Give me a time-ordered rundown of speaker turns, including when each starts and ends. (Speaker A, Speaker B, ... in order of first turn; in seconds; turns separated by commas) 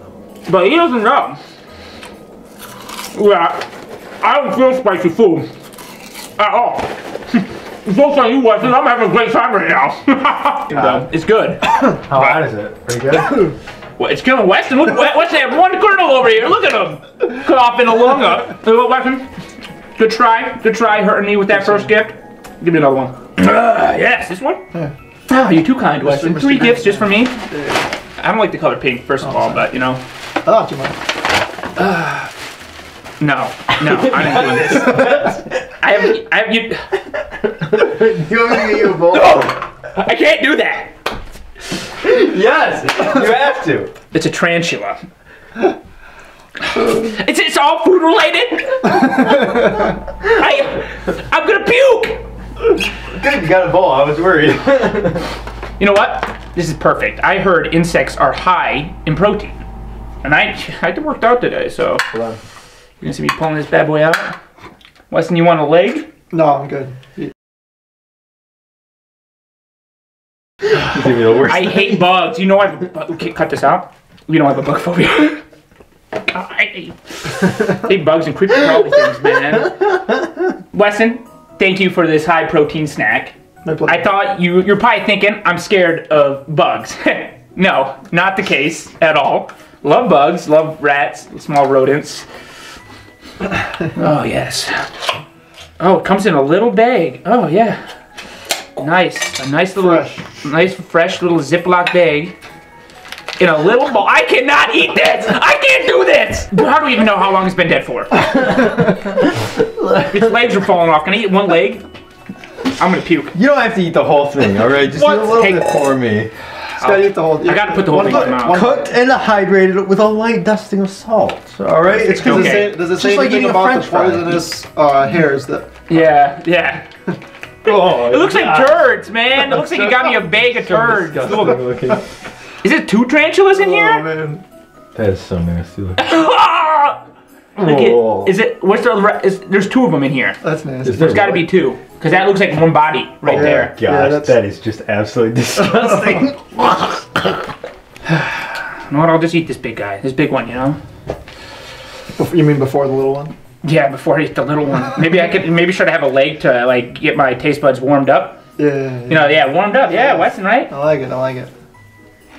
Speaker A: 0.5-1.4, Speaker A: 3.1-3.7, Speaker A: 4.2-5.5, Speaker A: 6.4-12.5, Speaker B: 10.7-11.0, Speaker C: 12.1-13.5, Speaker A: 14.0-19.3, Speaker A: 20.0-24.6, Speaker B: 21.6-21.9, Speaker A: 25.3-27.4, Speaker B: 26.0-27.9, Speaker A: 28.2-30.0, Speaker B: 29.2-29.6, Speaker B: 30.4-31.0, Speaker A: 31.8-32.3, Speaker A: 33.2-37.0, Speaker C: 33.8-35.5, Speaker C: 37.5-39.5, Speaker A: 38.9-40.9, Speaker C: 41.9-43.9, Speaker A: 44.1-45.0, Speaker A: 46.6-52.2, Speaker C: 53.1-55.3, Speaker A: 55.8-59.6, Speaker A: 60.2-62.0, Speaker C: 62.1-62.4, Speaker A: 63.0-64.4, Speaker A: 65.1-66.1, Speaker B: 66.3-67.1, Speaker C: 70.8-72.0, Speaker A: 71.4-75.4, Speaker A: 76.2-80.1, Speaker A: 80.7-92.3, Speaker B: 83.7-84.0, Speaker A: 93.9-94.9, Speaker A: 95.8-97.8, Speaker A: 98.8-102.3, Speaker B: 99.8-100.2, Speaker A: 103.4-108.6, Speaker C: 108.5-110.6, Speaker A: 110.1-111.9, Speaker A: 112.7-113.3, Speaker C: 113.3-116.3, Speaker A: 114.9-115.8, Speaker A: 116.8-118.8, Speaker B: 116.8-118.9, Speaker C: 117.9-124.5, Speaker A: 122.0-122.7, Speaker B: 122.1-125.8, Speaker A: 125.9-126.8, Speaker A: 127.6-131.8, Speaker C: 127.7-128.8, Speaker C: 130.7-132.0, Speaker A: 132.6-134.0, Speaker B: 133.5-134.4, Speaker C: 134.9-136.0, Speaker A: 136.0-137.0, Speaker C: 137.6-138.3, Speaker A: 137.6-140.4, Speaker B: 140.4-141.1, Speaker C: 140.8-141.5, Speaker A: 140.9-143.7, Speaker B: 143.2-144.4, Speaker C: 143.2-147.3, Speaker A: 148.1-150.8, Speaker B: 152.2-153.3, Speaker A: 153.6-158.4, Speaker B: 158.6-161.5, Speaker A: 159.1-160.7